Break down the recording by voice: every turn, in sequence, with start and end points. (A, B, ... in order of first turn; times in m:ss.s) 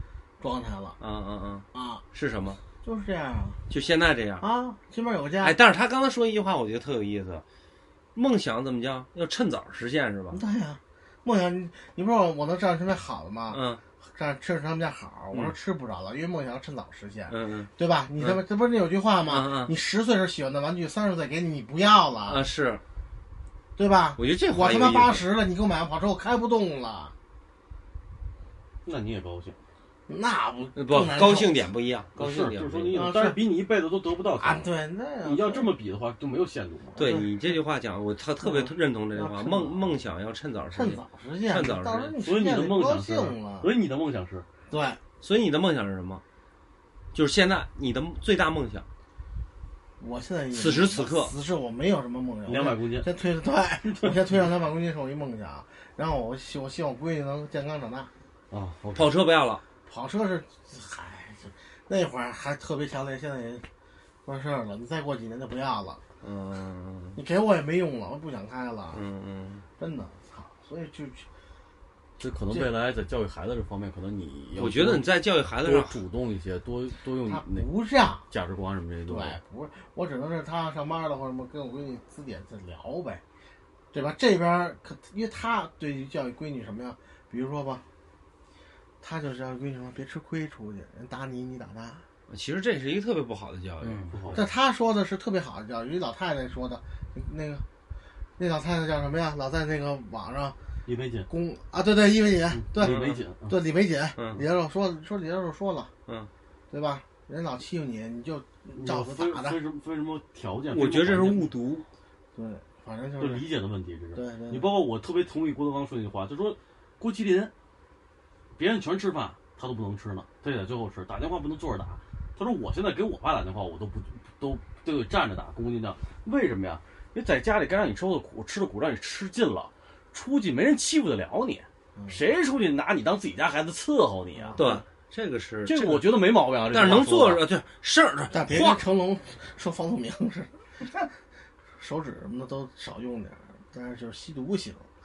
0:00.4-0:01.0 A
0:01.0-0:02.6 B
0:01.7-0:02.0 A
0:02.8-0:03.6 A
0:03.7-0:04.4 B
0:04.4-0:05.6 A
0:05.4-0:07.4 B
0:08.2-0:10.4 B
0:10.3-0:13.6 A
0:13.5-0:13.8 B
0:14.2-0:22.4 A
0:17.3-0:18.4 B
0:19.3-0:19.7 B
0:22.3-0:22.8 B
0:23.8-0:27.1 A
0:24.2-0:25.2 B
0:28.8-0:29.6 C
0:30.1-0:31.7 A
0:30.8-0:33.0 B
0:32.2-0:34.7 C
0:32.9-0:33.4 A
0:34.4-0:35.7 A
0:35.2-0:37.0 C
0:37.0-0:37.3 A
0:37.0-0:42.1 B
0:38.4-0:39.9 A
0:40.7-0:43.7 A
0:42.2-0:44.5 C
0:44.7-0:45.0 A
0:45.2-0:46.2 B
0:47.1-0:48.9 B
0:50.0-0:58.1 A
0:50.5-0:51.3 B
0:52.5-0:53.1 C
0:53.8-0:54.4 C
0:58.5-0:59.1 C
0:59.0-0:59.6 B
0:59.9-1:03.7 A
1:04.3-1:06.0 A
1:06.2-1:07.2 B
1:07.2-1:09.0 A
1:08.9-1:09.6 B
1:09.8-1:11.3 A
1:12.2-1:15.1 C
1:14.6-1:16.0 B
1:15.6-1:17.7 C
1:17.2-1:18.3 A
1:18.3-1:19.4 C
1:19.1-1:23.2 A
1:23.9-1:27.8 A
1:29.0-1:32.0 A
1:32.3-1:34.4 B
1:33.8-1:34.5 C
1:34.3-1:37.6 A
1:38.4-1:40.6 A
1:40.9-1:41.3 C
1:41.3-1:45.9 A
1:42.5-1:43.6 C
1:42.8-1:43.2 B
1:46.7-1:49.6 A
1:48.8-1:51.5 C
1:50.7-1:51.9 B
1:52.4-1:53.5 A
1:53.2-1:57.5 C
1:54.2-1:54.7 A
1:58.6-2:14.8 C
2:14.4-2:14.6 A
2:14.6-2:18.7 B
2:15.7-2:17.4 C
2:18.3-2:20.5 A
2:18.5-2:18.8 C
2:21.8-2:24.9 A